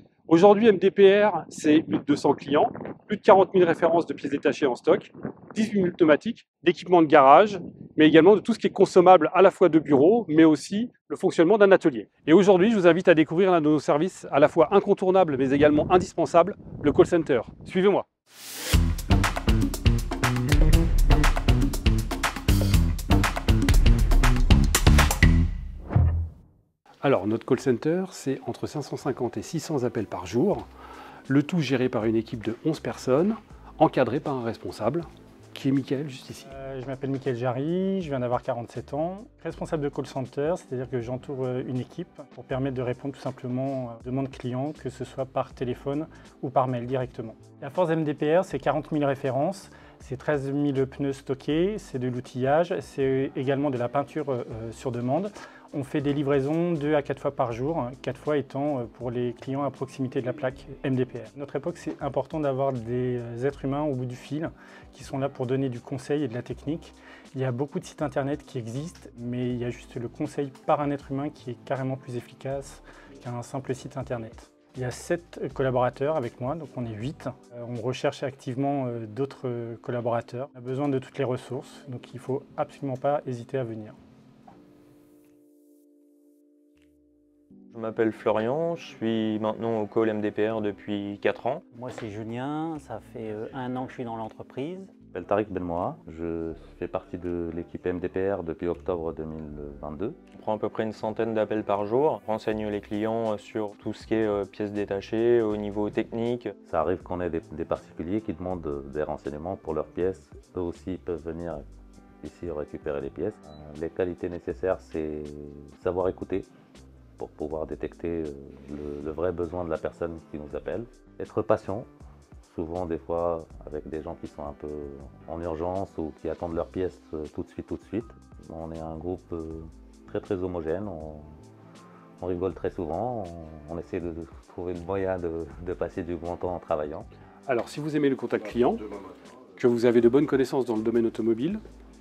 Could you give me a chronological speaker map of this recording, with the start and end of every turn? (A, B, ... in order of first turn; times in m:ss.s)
0:00.3-0:18.0 A
0:27.0-0:30.6 A
0:31.3-0:36.5 A
0:36.4-1:24.0 B
1:27.7-1:31.6 C
1:31.7-1:34.9 D
1:35.1-1:40.2 E
1:40.4-1:46.5 C
1:46.6-1:51.6 E
1:52.2-1:56.5 E
1:57.2-2:01.9 E
2:02.4-2:11.3 E
2:12.2-2:17.1 E
2:17.5-2:18.9 A
2:19.6-2:21.6 A